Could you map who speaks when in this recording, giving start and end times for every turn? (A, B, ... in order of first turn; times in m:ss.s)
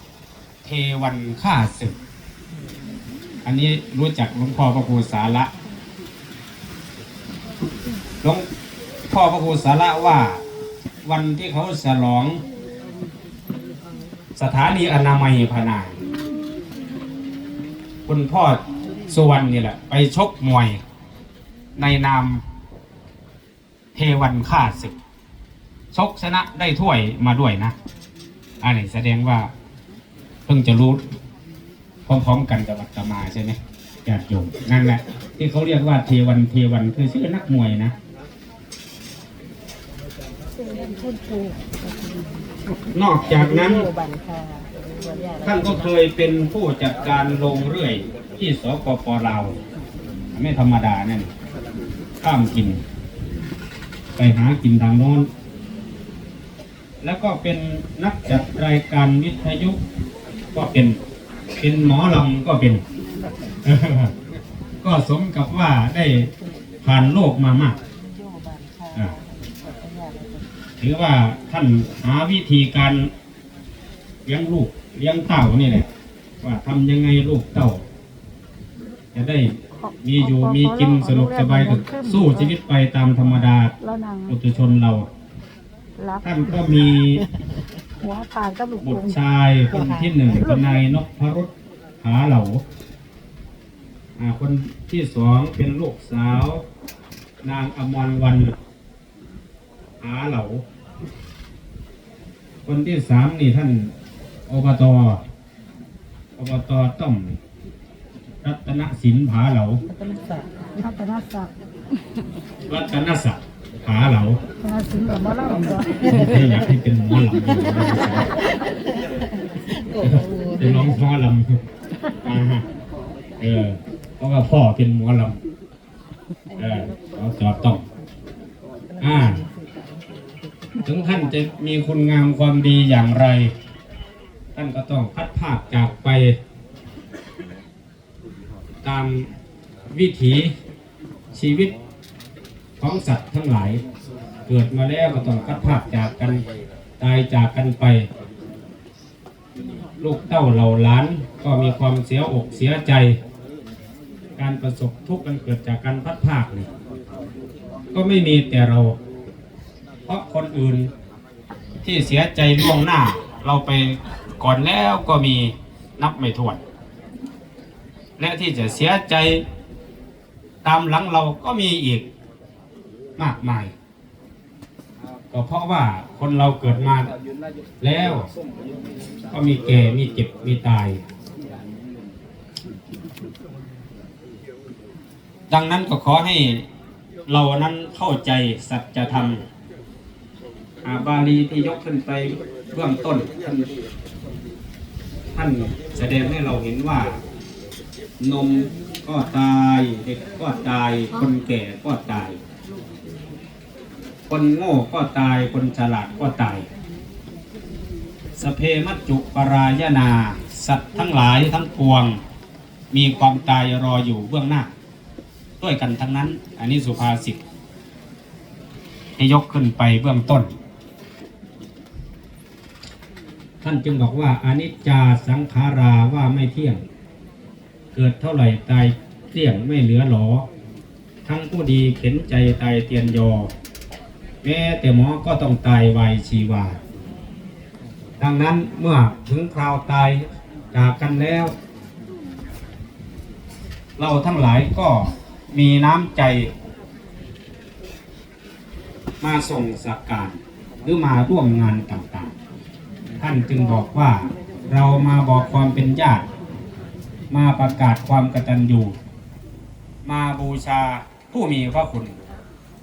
0:00.6-0:02.0 A
0:03.4-0:05.5 A
0:08.2-0:08.5 A
0:09.1-0:10.4 A
0:11.0-0:12.4 A
0:14.4-0:16.0 A
0:18.0-0:20.8 A
0:21.8-0:22.4 A
0:23.9-0:25.0 A
0:25.9-0:27.7 A
0:28.6-0:29.5 A
0:30.4-0:31.1 A
0:32.0-0:37.9 A
0:40.5-0:42.5 B
0:42.9-0:43.9 A
0:43.2-0:45.9 B
0:45.4-0:49.6 A
0:50.3-0:51.3 A
0:52.2-0:52.8 A
0:54.2-0:55.3 A
0:57.0-0:59.8 A
1:00.5-1:01.0 A
1:01.6-1:02.8 A
1:03.6-1:04.1 A
1:04.8-1:06.3 A
1:06.8-1:07.8 A
1:08.1-1:10.4 B
1:10.8-1:13.1 A
1:14.2-1:15.9 A
1:16.4-1:17.8 A
1:19.1-1:23.7 A
1:19.7-1:22.5 B
1:23.8-1:24.4 B
1:24.3-1:25.1 A
1:26.0-1:26.8 B
1:26.2-1:27.2 A
1:28.0-1:29.2 B
1:28.8-1:32.6 A
1:29.8-1:30.8 B
1:34.2-1:36.6 A
1:37.4-1:38.5 A
1:40.0-1:40.6 A
1:42.6-1:43.9 A
1:44.5-1:45.2 A
1:46.4-1:47.4 A
1:48.4-1:49.8 A
1:49.9-1:51.5 B
1:52.7-1:54.4 A
1:54.6-1:56.3 B
1:56.0-1:58.3 A
1:59.5-2:01.0 B
2:00.0-2:01.6 A
2:02.2-2:02.6 A
2:03.4-2:05.4 A
2:06.5-2:07.1 B
2:06.6-2:07.8 A
2:08.9-2:11.3 B
2:09.0-2:09.4 A
2:10.8-2:13.5 A
2:14.5-2:16.4 A
2:18.8-2:19.3 A
2:19.9-2:20.5 A
2:21.3-2:21.7 A
2:22.8-2:23.8 A
2:24.5-2:26.4 A
2:27.0-2:28.1 A
2:30.0-2:33.2 A
2:34.4-2:36.7 A
2:37.9-2:39.0 A
2:40.0-2:40.9 A
2:41.8-2:46.6 A
2:48.2-2:49.4 A
2:50.6-2:52.1 A
2:53.2-2:53.7 A
2:55.3-2:57.1 A
2:57.8-2:58.3 A
2:59.3-3:01.0 A
3:05.5-3:06.7 A
3:07.3-3:09.4 A
3:10.8-3:13.7 A
3:15.3-3:17.2 A
3:18.2-3:22.4 A
3:24.3-3:26.7 A
3:28.4-3:32.2 A
3:32.9-3:34.7 A
3:35.6-3:37.4 A
3:39.2-3:40.5 A
3:43.6-3:46.8 A
3:47.9-3:50.5 A
3:51.2-3:53.5 A
3:54.4-3:56.8 A
3:58.2-4:01.5 A
4:04.0-4:06.5 A
4:09.2-4:12.3 A
4:13.2-4:16.3 A
4:17.3-4:19.0 A
4:20.0-4:22.2 A